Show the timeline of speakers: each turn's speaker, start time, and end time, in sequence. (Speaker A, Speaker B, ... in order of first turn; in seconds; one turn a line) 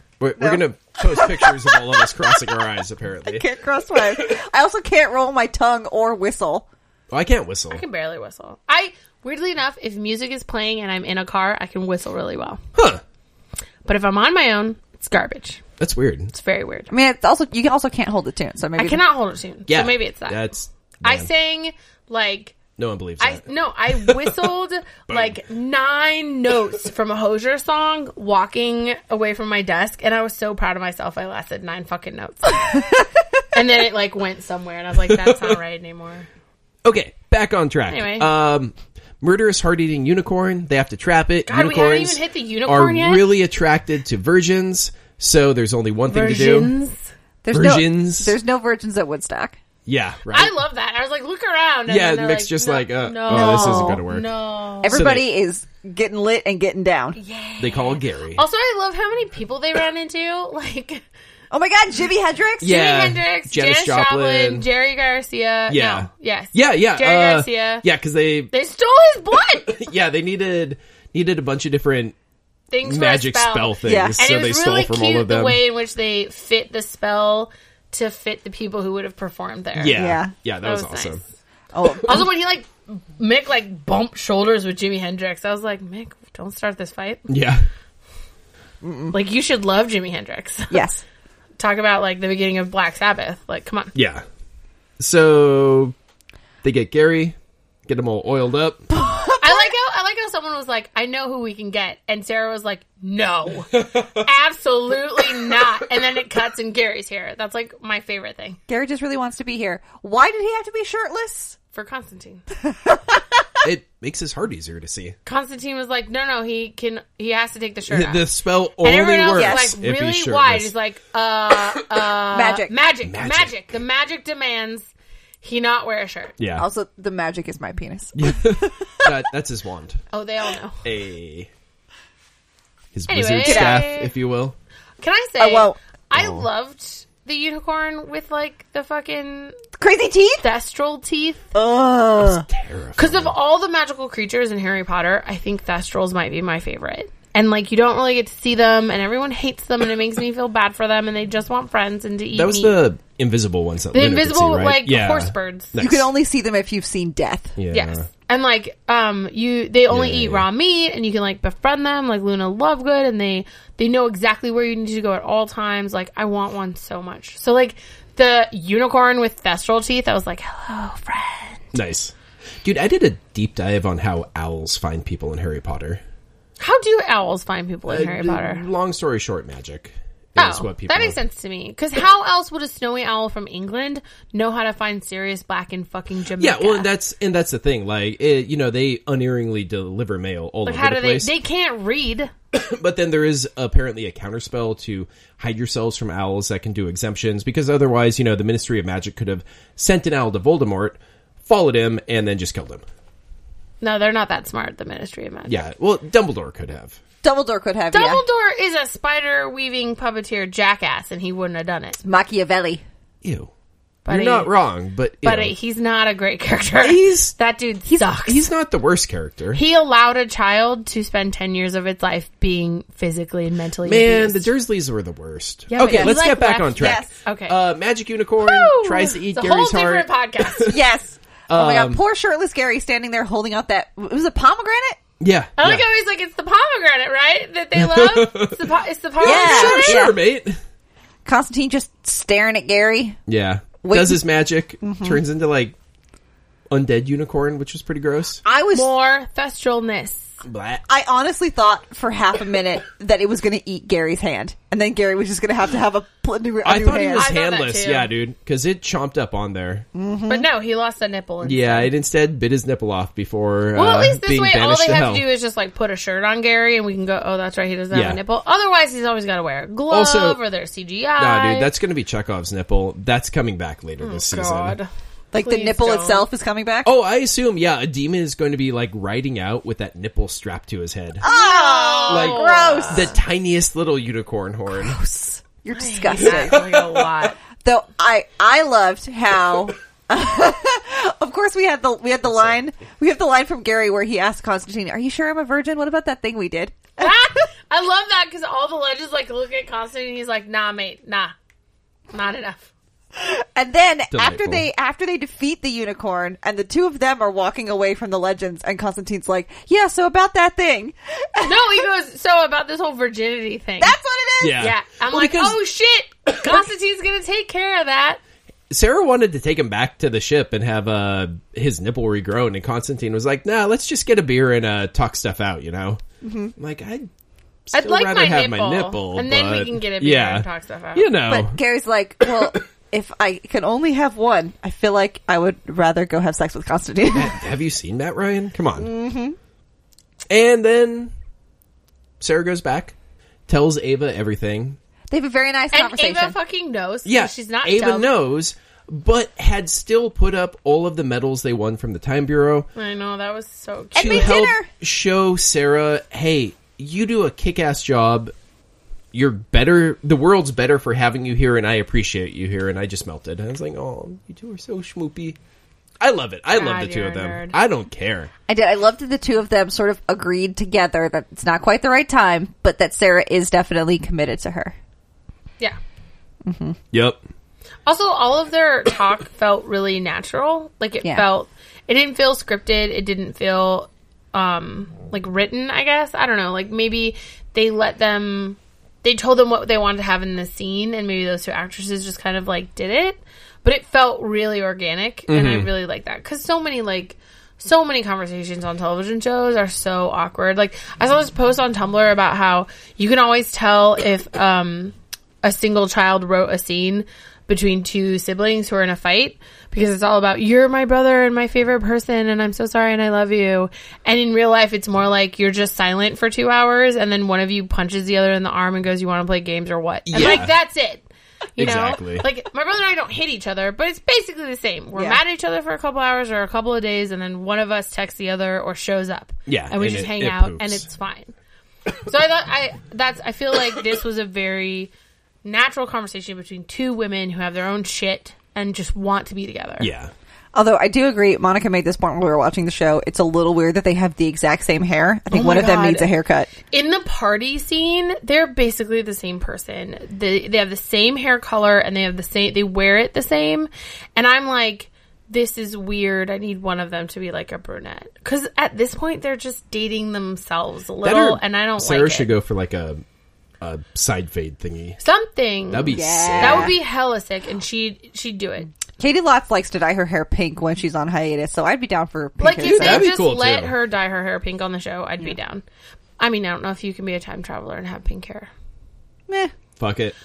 Speaker A: 0.2-3.5
Speaker B: 0.4-2.5
Speaker B: 3.2-6.7
Speaker A: 7.1-7.8
Speaker C: 7.7-12.6
Speaker A: 12.7-13.0
Speaker C: 13.8-15.6
Speaker A: 15.8-16.3
Speaker C: 16.3-16.9
Speaker B: 16.9-19.0
Speaker C: 18.8-20.4
Speaker A: 19.7-21.3
Speaker C: 21.0-22.6
Speaker A: 22.8-24.5
Speaker C: 23.2-33.0
Speaker A: 25.1-25.4
Speaker C: 33.5-36.3
Speaker A: 35.0-35.6
Speaker A: 36.8-46.7
Speaker C: 37.9-38.3
Speaker C: 41.5-43.3
Speaker C: 46.1-47.0
Speaker B: 47.4-49.6
Speaker A: 47.5-48.3
Speaker A: 49.9-50.5
Speaker C: 50.3-55.0
Speaker A: 51.9-54.3
Speaker B: 53.3-54.0
Speaker B: 54.8-57.2
Speaker A: 54.9-55.3
Speaker C: 57.1-61.0
Speaker A: 57.6-58.4
Speaker B: 61.5-62.8
Speaker A: 62.6-64.7
Speaker C: 62.6-67.8
Speaker A: 65.7-68.5
Speaker C: 68.5-69.9
Speaker A: 69.7-72.1
Speaker C: 72.7-80.0
Speaker A: 72.8-75.6
Speaker B: 73.8-74.2
Speaker A: 79.8-81.2
Speaker B: 79.9-80.3
Speaker C: 80.6-81.2
Speaker B: 81.7-82.3
Speaker C: 82.0-87.3
Speaker A: 87.3-87.6
Speaker B: 88.8-89.1
Speaker C: 89.1-90.8
Speaker B: 90.7-91.0
Speaker C: 91.6-93.9
Speaker A: 93.9-94.2
Speaker A: 95.0-95.9
Speaker A: 96.6-97.3
Speaker A: 97.9-98.8
Speaker B: 98.9-99.7
Speaker C: 99.3-108.6
Speaker A: 103.7-104.2
Speaker B: 108.7-111.6
Speaker C: 111.7-112.4
Speaker B: 112.6-113.5
Speaker A: 113.6-115.2
Speaker C: 115.2-118.3
Speaker A: 117.9-120.7
Speaker C: 118.8-124.9
Speaker B: 119.3-119.7
Speaker B: 122.3-122.7
Speaker A: 123.0-123.7
Speaker C: 125.4-126.4
Speaker A: 126.4-126.7
Speaker B: 126.5-129.1
Speaker A: 128.2-130.0
Speaker C: 130.1-130.8
Speaker A: 130.8-131.5
Speaker A: 132.9-134.6
Speaker C: 133.1-134.1
Speaker B: 133.4-133.8
Speaker C: 135.0-139.6
Speaker B: 135.4-135.7
Speaker A: 136.1-136.4
Speaker B: 139.8-140.4
Speaker C: 140.4-141.5
Speaker B: 141.5-142.4
Speaker A: 142.2-143.3
Speaker C: 143.0-152.8
Speaker A: 152.3-156.1
Speaker C: 153.9-155.7
Speaker B: 155.8-157.6
Speaker A: 157.6-158.1
Speaker C: 157.7-171.6
Speaker A: 159.9-160.4
Speaker A: 171.7-176.0
Speaker C: 176.6-178.6
Speaker A: 177.9-181.2
Speaker C: 180.4-186.9
Speaker A: 186.4-191.3
Speaker C: 190.7-192.3
Speaker A: 192.5-202.8
Speaker C: 203.8-205.6
Speaker A: 205.5-207.0
Speaker B: 207.2-208.2
Speaker C: 207.9-212.0
Speaker B: 212.0-212.8
Speaker A: 213.2-213.5
Speaker C: 214.1-214.5
Speaker A: 214.1-215.5
Speaker C: 215.2-218.5
Speaker A: 216.8-217.3
Speaker A: 218.2-219.6
Speaker C: 219.5-224.5
Speaker A: 223.8-230.7
Speaker C: 225.7-227.5
Speaker B: 225.8-226.1
Speaker B: 226.8-227.1
Speaker C: 228.4-230.7
Speaker B: 230.7-235.0
Speaker A: 231.5-232.0
Speaker A: 235.2-235.8
Speaker C: 235.6-240.0
Speaker A: 237.8-238.7
Speaker A: 239.2-240.6
Speaker B: 239.2-240.2
Speaker B: 241.2-243.2
Speaker A: 243.3-245.7
Speaker B: 243.8-244.2
Speaker B: 244.8-245.2
Speaker A: 246.7-248.4
Speaker B: 248.4-248.9
Speaker C: 248.7-250.3
Speaker A: 250.4-250.8
Speaker B: 250.9-257.3
Speaker A: 256.6-259.9
Speaker C: 257.1-258.1
Speaker B: 259.9-260.5
Speaker C: 260.3-261.9
Speaker A: 261.4-265.2
Speaker C: 263.7-271.7
Speaker A: 267.9-268.2
Speaker A: 269.9-270.4
Speaker A: 271.2-274.8
Speaker C: 274.0-276.2
Speaker B: 275.3-276.9
Speaker A: 276.8-281.2
Speaker B: 281.2-283.2
Speaker C: 281.2-283.1
Speaker A: 282.1-285.0
Speaker B: 284.7-286.6
Speaker C: 285.7-287.4
Speaker A: 286.2-287.0
Speaker B: 287.6-297.2
Speaker C: 297.0-301.3
Speaker C: 302.1-302.7
Speaker B: 303.1-311.8
Speaker A: 304.1-304.6
Speaker C: 311.4-313.9
Speaker B: 313.8-314.6
Speaker A: 314.4-315.6
Speaker C: 314.6-318.2
Speaker A: 318.7-326.0
Speaker B: 326.2-326.5
Speaker A: 326.6-327.1
Speaker A: 327.7-331.6
Speaker C: 327.7-331.1
Speaker B: 331.3-337.4
Speaker A: 332.2-332.5
Speaker A: 337.1-338.9
Speaker B: 338.8-339.4
Speaker A: 340.3-341.1
Speaker A: 342.2-342.9
Speaker A: 343.5-344.8
Speaker B: 345.1-346.4
Speaker C: 345.7-348.1
Speaker A: 347.1-352.7
Speaker C: 352.7-354.4
Speaker B: 353.9-354.7
Speaker A: 354.0-358.3
Speaker A: 359.1-365.4
Speaker A: 366.0-368.3
Speaker C: 366.5-367.5
Speaker B: 368.5-374.7
Speaker B: 376.4-376.8
Speaker A: 376.9-377.2
Speaker C: 377.9-431.3
Speaker A: 395.3-395.7
Speaker A: 420.1-420.5
Speaker B: 420.1-420.4
Speaker A: 421.6-422.2
Speaker B: 424.9-425.2
Speaker A: 429.5-430.8
Speaker C: 432.0-434.9
Speaker C: 435.4-439.9
Speaker A: 439.8-440.1
Speaker B: 440.5-446.5
Speaker C: 445.3-446.1
Speaker C: 446.7-462.3
Speaker A: 461.0-463.0
Speaker A: 463.6-465.0
Speaker C: 465.0-468.7
Speaker A: 465.7-466.8
Speaker B: 465.9-466.7
Speaker B: 469.0-473.1
Speaker C: 472.4-475.6
Speaker A: 472.6-473.7
Speaker C: 476.2-478.5
Speaker A: 479.8-480.1